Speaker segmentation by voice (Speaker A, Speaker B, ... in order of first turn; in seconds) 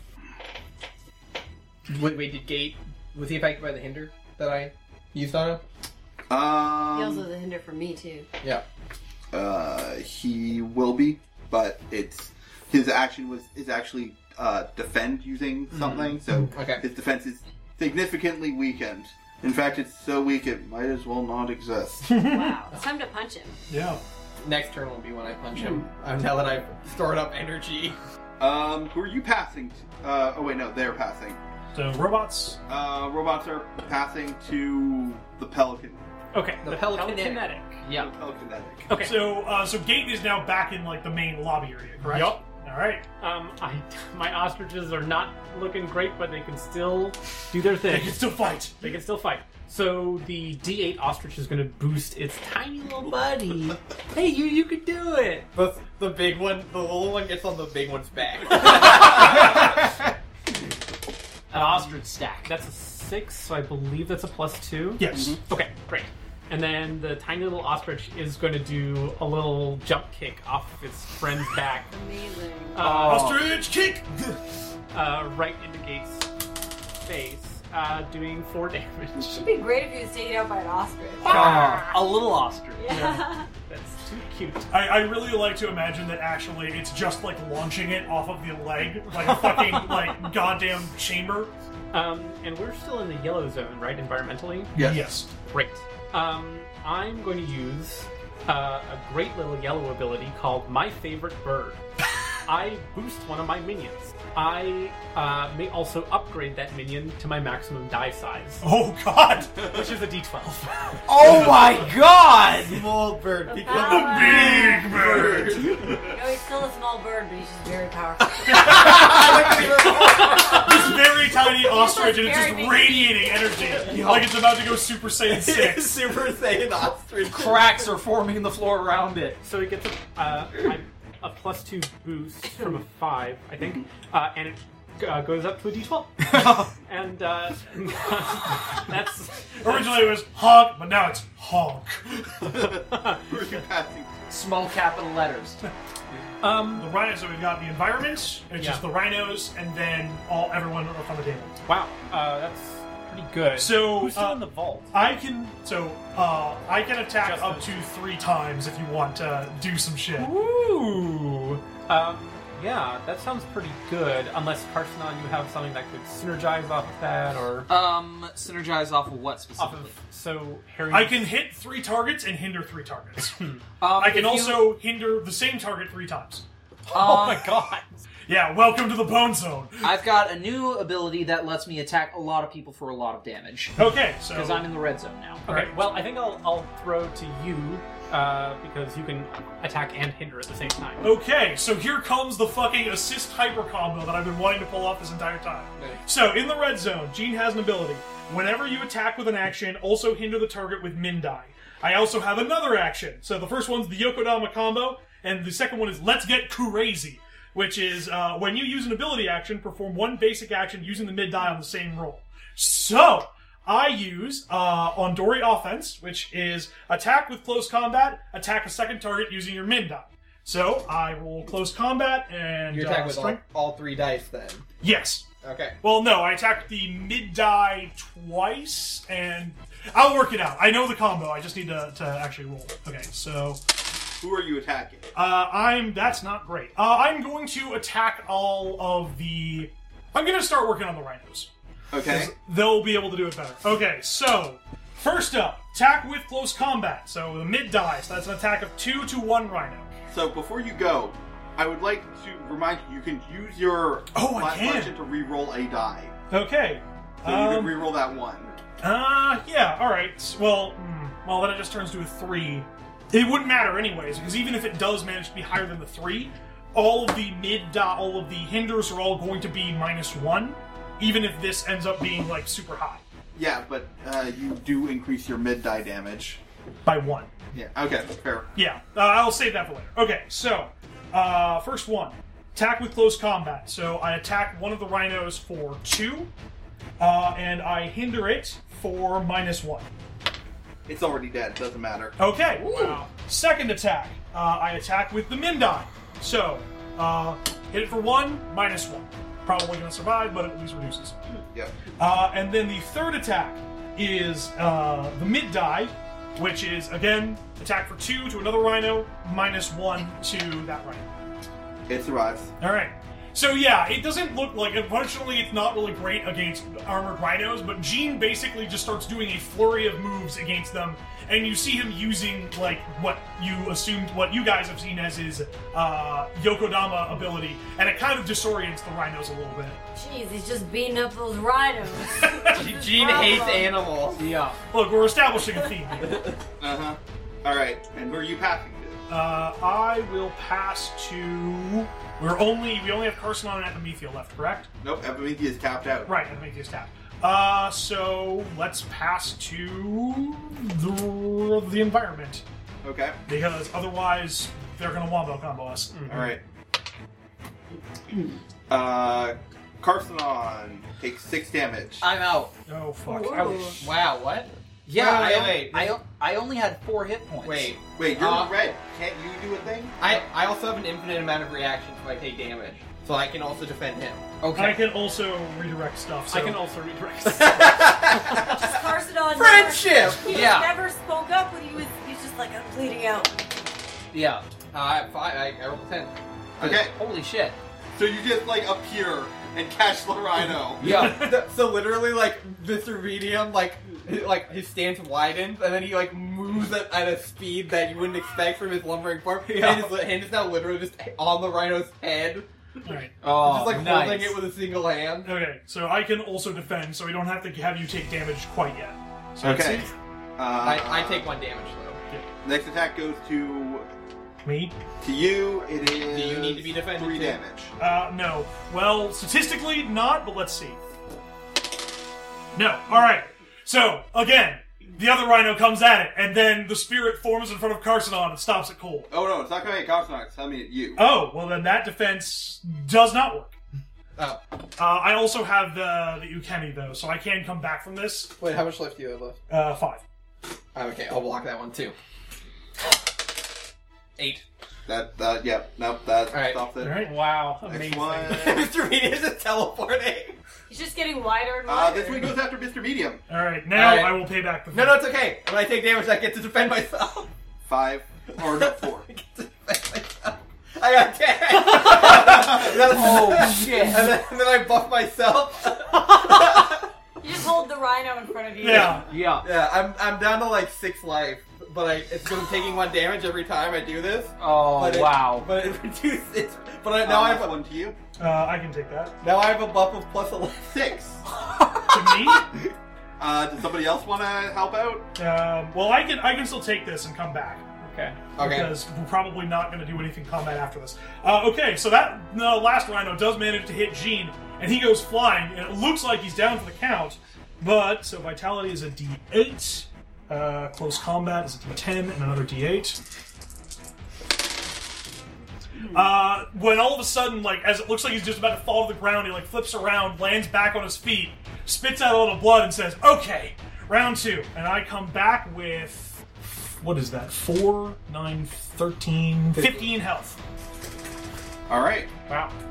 Speaker A: 1.9-5.6, 15.7-16.8, 24.4-28.0, 36.6-37.5, 55.5-59.9, 112.6-115.9, 118.5-120.7, 123.8-124.4, 125.2-127.9, 222.7-224.7, 225.4-225.8, 332.5-334.2, 363.8-366.0, 367.4-368.7, 370.0-374.3, 377.2-380.5, 384.7-386.8, 390.8-402.5, 403.3-405.3, 410.6-412.0, 415.9-417.4, 438.4-439.4, 440.7-441.9, 444.2-444.4, 446.3-446.6, 448.3-450.4, 453.7-457.3, 458.4-466.9, 469.4-477.6, 479.2-481.0, 488.4-488.7
Speaker B: 6.3-7.2, 9.3-22.1, 28.4-31.4, 32.7-36.0, 37.9-38.9, 65.1-65.4, 94.7-95.1, 142.4-144.3, 234.2-235.1, 241.9-242.3, 250.1-256.1, 257.2-258.6, 273.3-276.4, 277.5-278.5, 290.9-292.2, 311.9-312.5, 336.6-339.0, 344.8-346.2, 352.8-353.2, 356.1-356.4, 358.7-362.1, 368.0-370.0, 386.6-386.9, 387.9-390.8, 409.4-411.3, 412.4-413.9, 415.0-417.7, 429.1-431.0, 444.9-447.1, 447.6-448.7, 451.6-453.2, 457.6-459.1, 477.0-478.0, 480.7-481.2, 483.2-485.1, 521.7-522.1
Speaker C: 6.9-8.3, 22.3-23.6, 25.6-25.8, 71.9-72.8, 79.2-81.7, 82.8-83.5, 113.5-114.9, 116.0-119.4, 120.3-120.8, 121.6-123.9, 329.9-333.9, 363.1-363.8, 378.5-383.4, 450.7-452.4, 467.2-469.1
Speaker D: 22.0-22.6, 23.7-24.0, 31.7-32.6, 39.0-43.0, 47.9-49.0, 65.0-65.4, 73.0-74.4, 81.4-81.8, 82.9-83.2, 84.7-91.5, 94.7-95.3, 108.6-109.7, 113.7-116.1, 118.6-126.0, 139.6-142.3, 146.7-151.5, 153.6-160.3, 170.9-173.4, 173.9-176.4, 178.3-180.0, 183.8-184.7, 185.5-185.7, 191.0-223.4, 224.8-225.2, 225.8-233.6, 235.1-241.5, 242.0-249.9, 254.1-254.9, 256.3-257.8, 258.8-273.0, 276.9-277.3, 278.6-286.3, 287.0-289.9, 292.2-301.2, 302.0-311.1, 312.6-329.8, 332.1-332.6, 334.7-336.3, 339.1-344.7, 346.1-352.4, 353.3-356.4, 362.7-363.8, 374.5-376.6, 390.9-391.4, 402.8-403.1, 405.2-409.9, 414.4-414.8, 417.8-420.8, 422.5-429.1, 431.0-433.6, 434.8-438.3, 439.5-440.0, 446.8-447.1, 453.3-455.1, 468.6-469.1, 478.2-479.1, 481.9-482.5, 485.1-487.6, 488.4-503.0, 505.9-516.2, 516.8-520.4
Speaker E: 22.4-22.6, 37.8-38.1, 61.5-62.5, 72.8-73.5, 81.2-83.0, 111.0-112.9, 127.3-129.4, 136.3-136.7, 144.3-145.6, 167.7-169.9, 173.8-174.7, 176.9-177.5, 179.8-185.5, 292.6-293.0, 334.2-334.6, 362.0-362.5, 364.9-367.8, 374.4-374.9, 380.2-380.7, 384.1-384.4, 386.8-387.6, 390.8-391.3, 399.6-399.9, 403.2-404.4, 461.8-464.2, 469.0-469.5, 474.4-475.5
Speaker F: 36.3-37.8, 38.9-39.2, 42.0-42.4, 43.2-55.5, 58.8-59.1, 61.5-71.9, 72.7-73.4, 74.9-76.3, 77.0-79.5, 81.3-81.8, 83.7-84.7, 89.1-90.2, 91.9-94.7, 95.5-101.8, 102.4-108.7, 109.6-111.0, 129.4-140.2, 142.6-143.2, 146.4-146.9, 148.6-148.8, 151.7-154.9, 157.2-157.9, 160.1-167.7, 169.6-171.3, 176.9-178.0, 185.4-191.1, 355.9-356.3, 376.3-378.3, 446.8-448.5, 487.8-488.2, 522.3-522.5